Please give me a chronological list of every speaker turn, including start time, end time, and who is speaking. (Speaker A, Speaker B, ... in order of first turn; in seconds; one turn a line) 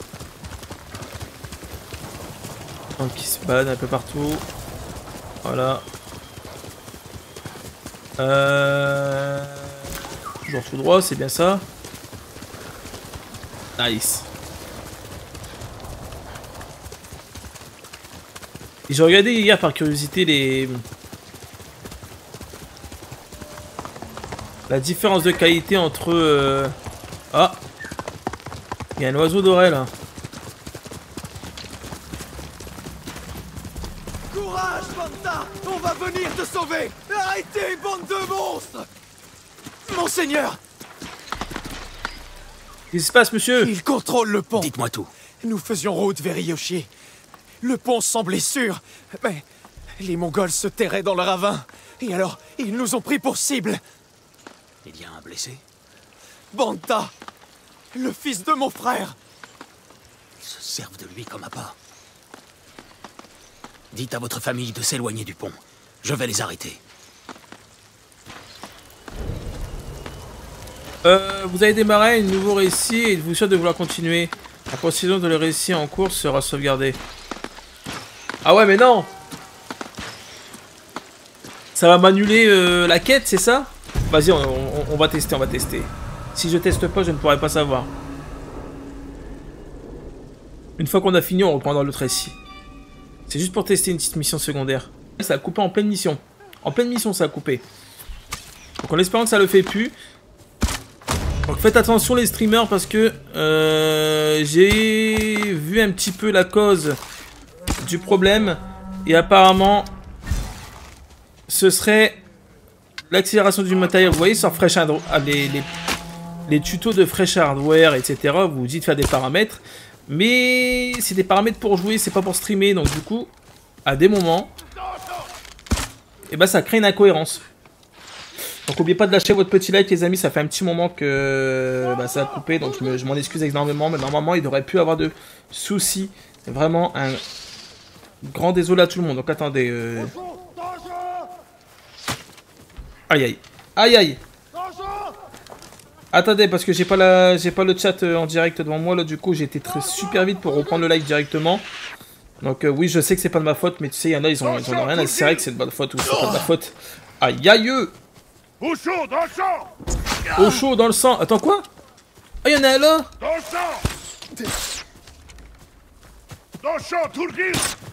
Speaker A: 3.0-4.5
Speaker A: 5.5-5.8
Speaker A: 8.2-9.8
Speaker A: 10.5-11.7
Speaker A: 13.8-14.3
Speaker A: 18.9-20.8
Speaker A: 24.7-26.7
Speaker A: 27.3-27.6
Speaker A: 29.0-29.9
Speaker B: 34.3-38.9
Speaker B: 39.9-40.6
Speaker A: 42.9-43.7
Speaker B: 43.6-44.7
Speaker C: 44.5-45.1
Speaker B: 45.4-46.9
Speaker B: 47.6-49.5
Speaker B: 50.0-53.8
Speaker C: 54.8-55.6
Speaker B: 56.5-57.1
Speaker B: 57.9-59.2
Speaker C: 60.4-61.8
Speaker C: 63.9-66.8
Speaker A: 71.0-77.0
Speaker A: 78.4-79.1
Speaker A: 81.8-87.9
Speaker A: 90.8-92.4
Speaker A: 93.3-97.6
Speaker A: 98.8-100.0
Speaker A: 101.5-107.0
Speaker A: 107.8-109.9
Speaker A: 111.5-112.2
Speaker A: 113.1-115.7
Speaker A: 116.5-123.3
Speaker A: 123.9-124.5
Speaker A: 126.3-127.4
Speaker A: 128.7-137.2
Speaker A: 138.2-140.1
Speaker D: 140.2-141.2
Speaker A: 143.1-144.2
Speaker D: 144.6-145.1
Speaker A: 146.1-151.7
Speaker A: 152.4-157.9
Speaker D: 154.4-155.4
Speaker D: 158.6-159.7
Speaker A: 160.3-161.7
Speaker A: 162.4-163.1
Speaker D: 163.2-163.8
Speaker D: 166.6-167.7